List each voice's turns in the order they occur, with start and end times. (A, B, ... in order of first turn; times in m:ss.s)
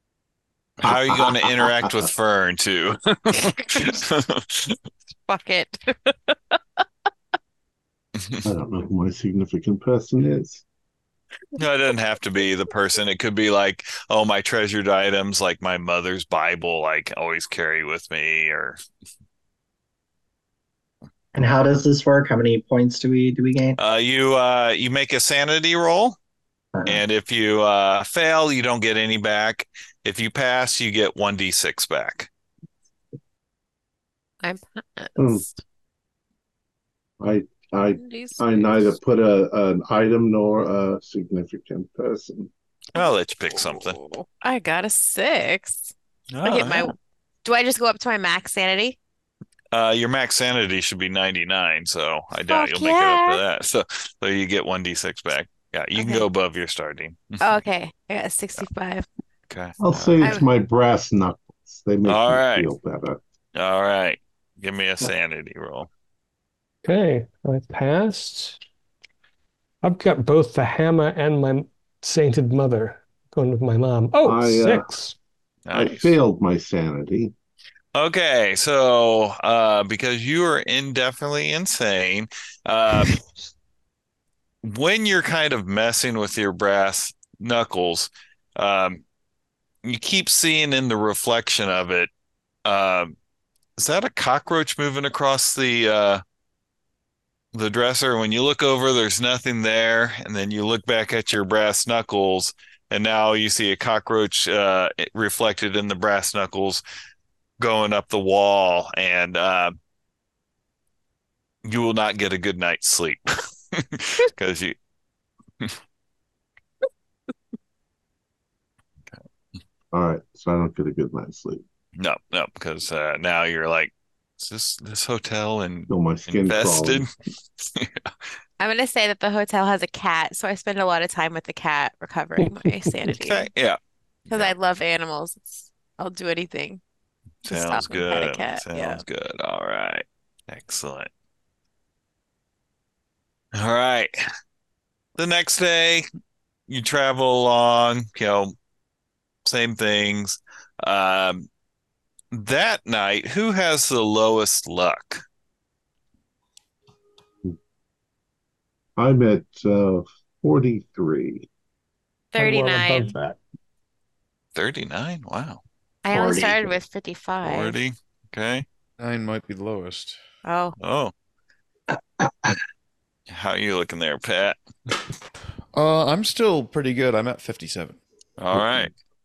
0:00.8-0:04.8 A
0:00.8-0:01.9 B
0:03.4-0:04.0 C
0:05.3-0:06.8 C
0:08.2-0:08.4 A
0:08.4-0:10.6 B
0:11.6-0:18.8 A
0:21.3-0:23.8 D
0:23.8-0:26.2 A
0:26.8-0:32.3 A
0:34.4-0:35.4 C
0:35.2-0:35.4 B
0:37.2-0:42.5 B
0:37.9-0:38.7 C
0:42.9-0:44.0 A
0:43.6-0:45.9 C
0:46.3-0:46.9 A
0:46.4-0:49.0 C
0:49.7-0:57.4 A
0:52.4-0:53.4 C
0:55.9-0:56.3 C
0:57.4-0:59.0 C
0:59.5-1:00.4 A
0:59.8-1:03.2 B
1:00.2-1:00.5 C
1:02.0-1:02.7 A
1:03.6-1:05.9 A
1:06.8-1:08.6 E
1:09.8-1:15.2 E
1:14.2-1:14.9 B
1:15.6-1:16.1 A
1:15.7-1:17.3 B
1:17.9-1:23.2 A
1:24.6-1:29.0 A
1:29.8-1:32.1 A
1:32.6-1:33.1 A
1:33.8-1:36.2 A
1:37.5-1:46.8 A
1:47.6-1:49.7 A
1:51.6-1:54.7 A
1:59.9-2:01.6 B
2:02.0-2:08.1 A
2:05.9-2:07.0 B
2:08.6-2:13.5 C
2:12.4-2:12.7 E
2:13.1-2:13.8 A
2:14.3-2:16.8 C
2:17.4-2:21.1 A
2:17.5-2:19.0 C
2:23.5-2:24.1 A
2:25.2-2:26.0 A
2:26.7-2:28.5 A
2:29.4-2:31.5 A
2:32.3-2:35.2 A
2:39.0-2:41.5 B
2:42.3-2:43.1 C
2:42.4-2:43.4 E
2:44.5-2:45.6 A
2:46.0-2:47.8 C
2:46.1-2:46.8 D
2:47.4-2:48.6 A
2:49.0-2:50.2 F
2:50.4-2:50.8 C
2:50.8-2:51.1 A
2:51.9-2:52.6 D
2:53.3-2:54.6 A
2:55.7-2:58.0 F
2:58.4-2:58.9 A